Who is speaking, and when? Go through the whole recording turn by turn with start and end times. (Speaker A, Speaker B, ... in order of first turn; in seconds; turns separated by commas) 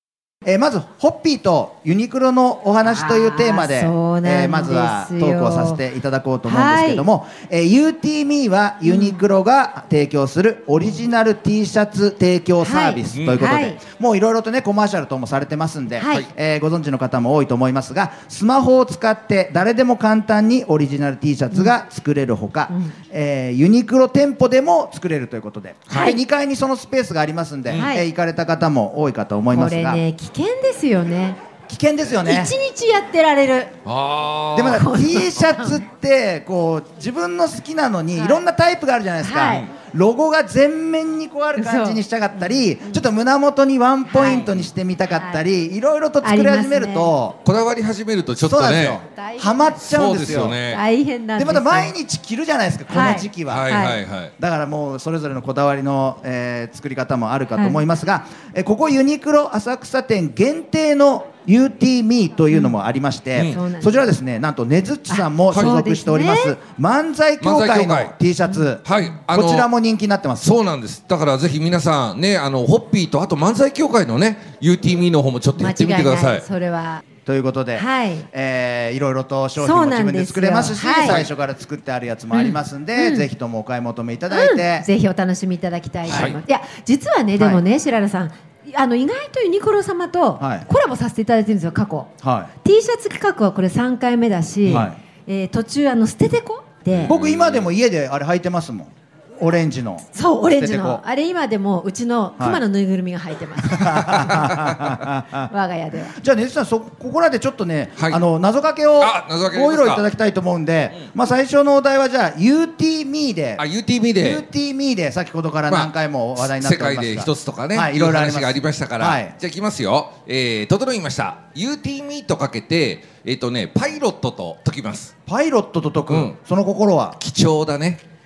Speaker A: 0.5-30.0, Speaker B: 2.8-5.8, Speaker B: 6.4-7.1, Speaker B: 8.9-9.2, Speaker B: 12.6-13.8, Speaker C: 13.1-13.6, Speaker B: 16.0-16.3, Speaker B: 22.7-22.9, Speaker B: 25.9-26.2, Speaker B: 27.8-28.1, Speaker B: 29.5-31.4, Speaker A: 31.7-32.5, Speaker B: 32.3-33.7, Speaker C: 33.9-34.8, Speaker A: 34.5-47.4, Speaker B: 34.7-35.8, Speaker B: 38.1-38.5, Speaker B: 39.2-39.7, Speaker B: 41.6-43.0, Speaker B: 44.1-44.5, Speaker C: 44.2-44.6, Speaker B: 45.1-45.4, Speaker B: 46.2-47.1, Speaker C: 47.5-49.0, Speaker A: 48.4-50.6, Speaker B: 49.1-49.8, Speaker C: 49.8-50.8, Speaker B: 50.7-51.9, Speaker A: 51.4-53.9, Speaker B: 52.9-54.0, Speaker C: 53.5-54.3, Speaker A: 54.4-70.5, Speaker B: 57.5-57.8, Speaker B: 63.5-64.1, Speaker B: 65.1-66.6, Speaker C: 65.5-65.8, Speaker C: 67.4-68.2, Speaker C: 68.8-69.7, Speaker C: 70.4-76.5, Speaker B: 75.6-77.0, Speaker A: 77.2-84.9, Speaker B: 77.8-78.3, Speaker B: 79.6-81.2, Speaker B: 82.3-83.3, Speaker B: 84.3-92.1, Speaker C: 86.1-86.4, Speaker A: 87.4-87.6, Speaker A: 90.4-90.7, Speaker A: 92.2-92.5, Speaker B: 92.6-97.2, Speaker A: 94.7-95.0, Speaker C: 96.9-97.7, Speaker A: 97.1-101.0, Speaker B: 100.1-104.6, Speaker A: 103.6-105.5, Speaker C: 104.2-104.9, Speaker B: 105.5-106.2, Speaker A: 106.2-113.6, Speaker C: 109.0-110.1, Speaker C: 113.6-114.5, Speaker A: 114.2-119.3, Speaker C: 115.7-125.1, Speaker A: 125.3-127.2, Speaker C: 126.1-126.4, Speaker C: 127.2-128.0